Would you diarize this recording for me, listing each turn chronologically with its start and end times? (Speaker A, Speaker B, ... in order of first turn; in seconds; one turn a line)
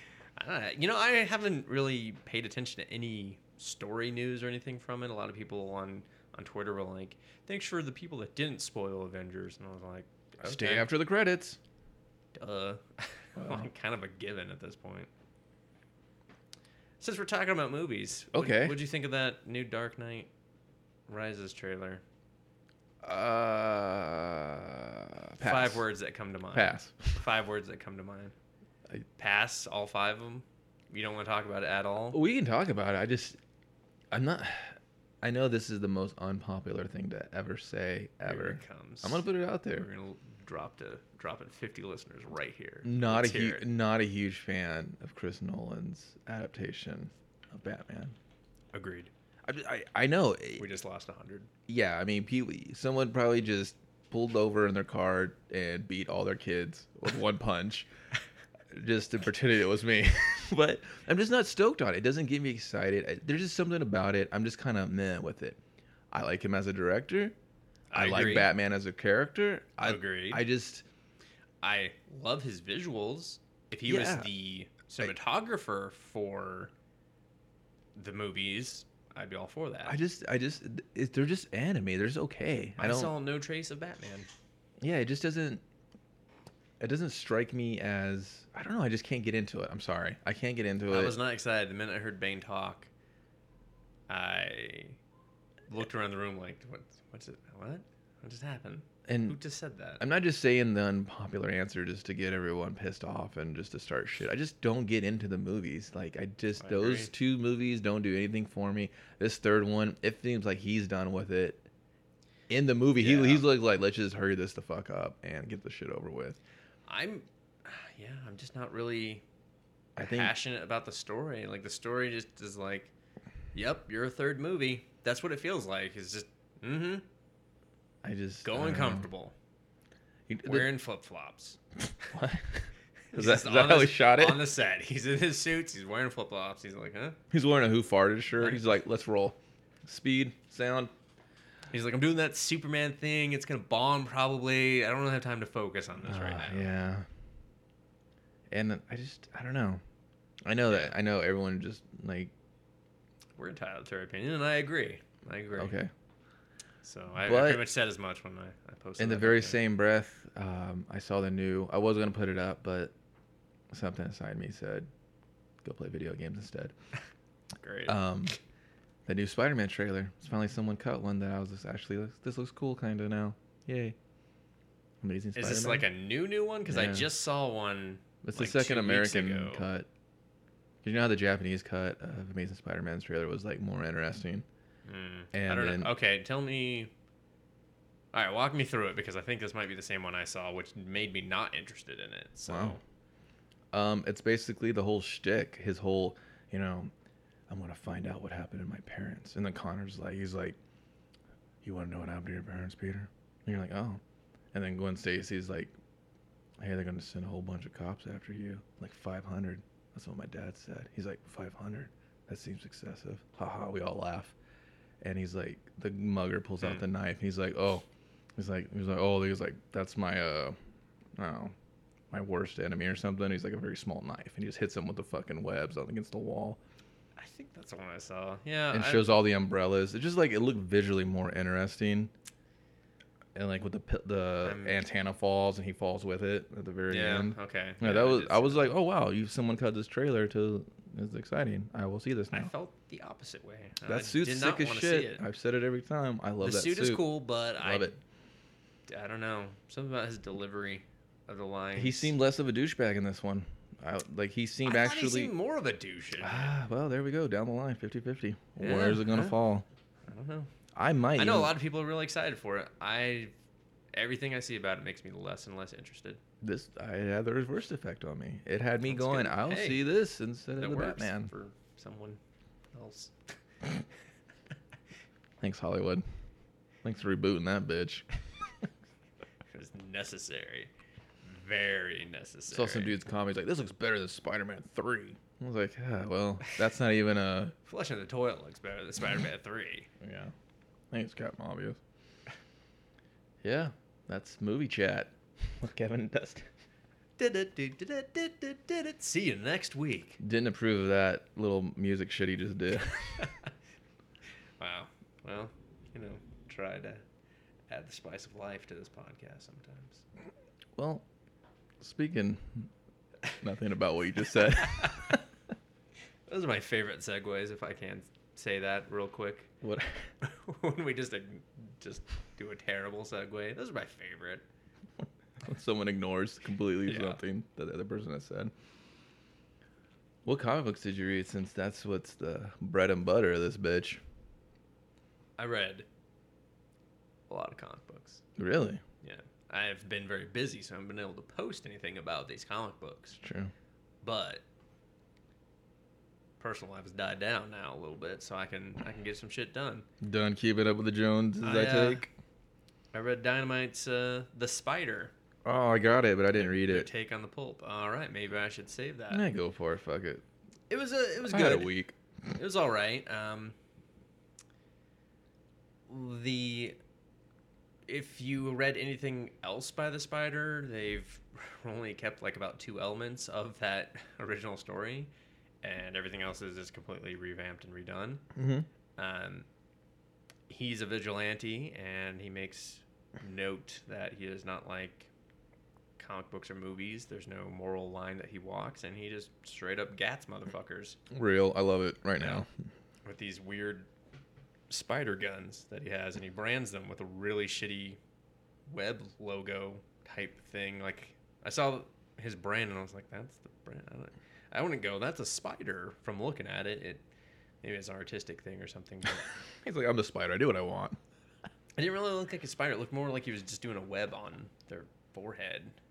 Speaker A: 0.4-10.9
Speaker B: 10.4-11.6
Speaker A: 12.3-15.1
Speaker B: 13.4-13.7
Speaker A: 17.0-20.3
Speaker B: 18.3-18.8
Speaker A: 21.1-22.0
Speaker B: 23.0-25.8
Speaker A: 25.4-28.3
Speaker B: 26.5-27.1
Speaker A: 29.2-32.2
Speaker B: 32.1-33.4
Speaker B: 34.1-39.9
Speaker A: 38.2-43.6
Speaker B: 42.8-48.1
Speaker A: 48.7-49.1
Speaker B: 49.4-50.7
Speaker A: 50.6-51.5
Speaker B: 51.7-57.9
Speaker B: 58.7-65.6
Speaker B: 66.1-67.3
Speaker A: 67.9-68.5
Speaker B: 67.9-70.8
Speaker A: 69.8-70.4
Speaker A: 71.6-76.7
Speaker B: 73.8-74.3
Speaker A: 77.9-80.0
Speaker B: 79.8-83.1
Speaker A: 82.8-84.3
Speaker B: 84.8-85.6
Speaker B: 86.8-91.2
Speaker A: 90.9-92.9
Speaker A: 94.1-95.0
Speaker A: 95.7-100.0
Speaker B: 99.1-99.4
Speaker B: 100.0-111.7
Speaker A: 106.6-107.1
Speaker B: 112.5-116.4
Speaker A: 113.0-113.5
Speaker A: 116.9-119.2
Speaker B: 120.0-120.3
Speaker A: 120.0-122.9
Speaker A: 123.5-127.0
Speaker B: 128.0-129.1
Speaker A: 128.4-129.3
Speaker B: 130.3-130.7
Speaker A: 130.4-131.6
Speaker B: 132.1-134.5
Speaker A: 133.1-137.2
Speaker B: 137.3-140.9
Speaker A: 138.4-138.6
Speaker A: 141.7-146.7
Speaker B: 146.0-147.1
Speaker B: 148.5-149.8
Speaker B: 150.4-152.3
Speaker A: 150.7-150.9
Speaker A: 153.4-155.8
Speaker B: 155.5-155.9
Speaker A: 156.8-159.6
Speaker B: 157.2-157.7
Speaker B: 159.0-162.9
Speaker B: 163.7-164.9
Speaker B: 165.6-166.7
Speaker A: 167.6-167.9
Speaker B: 167.9-168.3
Speaker B: 169.1-173.9
Speaker B: 175.0-175.8
Speaker A: 175.3-179.7
Speaker B: 176.7-177.1
Speaker B: 178.2-179.9
Speaker B: 180.8-184.4
Speaker A: 184.8-186.9
Speaker B: 185.3-185.9
Speaker A: 188.1-192.8
Speaker B: 192.5-192.8
Speaker B: 193.7-196.9
Speaker B: 197.5-200.6
Speaker B: 201.6-204.0
Speaker B: 204.5-205.7
Speaker B: 206.6-214.3
Speaker B: 215.0-217.8
Speaker B: 218.3-220.6
Speaker B: 221.2-221.5
Speaker B: 222.1-226.6
Speaker A: 227.2-229.2
Speaker B: 228.7-232.1
Speaker B: 233.3-242.5
Speaker A: 234.4-234.8
Speaker A: 236.9-238.7
Speaker A: 242.3-245.2
Speaker B: 243.8-248.0
Speaker A: 246.4-248.0
Speaker A: 248.9-252.1
Speaker B: 251.8-255.3
Speaker A: 254.6-256.5
Speaker B: 256.2-259.6
Speaker A: 258.6-259.4
Speaker A: 260.1-260.5
Speaker B: 260.7-261.5
Speaker A: 261.2-263.3
Speaker A: 263.9-266.2
Speaker B: 266.4-271.3
Speaker A: 268.8-269.9
Speaker A: 270.6-272.2
Speaker A: 272.7-273.1
Speaker B: 275.4-276.0
Speaker B: 276.8-278.1
Speaker A: 279.5-280.7
Speaker A: 281.2-282.9
Speaker B: 282.5-287.5
Speaker A: 287.6-289.9
Speaker B: 290.0-290.3
Speaker B: 290.9-291.8
Speaker B: 293.4-296.5
Speaker A: 297.2-300.2
Speaker B: 300.2-303.2
Speaker A: 303.2-303.5
Speaker A: 304.6-307.0
Speaker A: 307.7-310.0
Speaker B: 310.7-311.0
Speaker B: 311.8-312.7
Speaker B: 313.4-315.2
Speaker A: 314.7-315.1
Speaker A: 316.3-319.5
Speaker B: 319.6-320.1
Speaker A: 320.2-324.4
Speaker B: 325.4-328.5
Speaker A: 326.9-327.2
Speaker B: 330.2-334.0
Speaker A: 335.4-335.9
Speaker A: 337.3-338.2
Speaker B: 338.4-338.8
Speaker A: 339.0-343.2
Speaker B: 343.2-343.5
Speaker A: 344.0-344.4
Speaker A: 346.4-349.9
Speaker B: 350.0-352.1
Speaker A: 351.4-352.1
Speaker A: 352.9-355.1
Speaker B: 355.4-356.9
Speaker A: 356.3-359.2
Speaker B: 359.1-360.2
Speaker A: 360.7-361.7
Speaker B: 361.3-361.9
Speaker A: 362.3-363.6
Speaker A: 365.9-366.8
Speaker A: 367.9-375.1
Speaker A: 375.6-378.2
Speaker B: 378.3-378.7
Speaker A: 379.0-379.5
Speaker A: 380.5-385.1
Speaker A: 386.0-391.0
Speaker B: 391.1-392.5
Speaker A: 392.2-392.4
Speaker A: 393.0-393.9
Speaker A: 394.7-398.0
Speaker A: 398.7-407.0
Speaker A: 407.6-409.2
Speaker B: 409.6-411.0
Speaker A: 411.8-415.8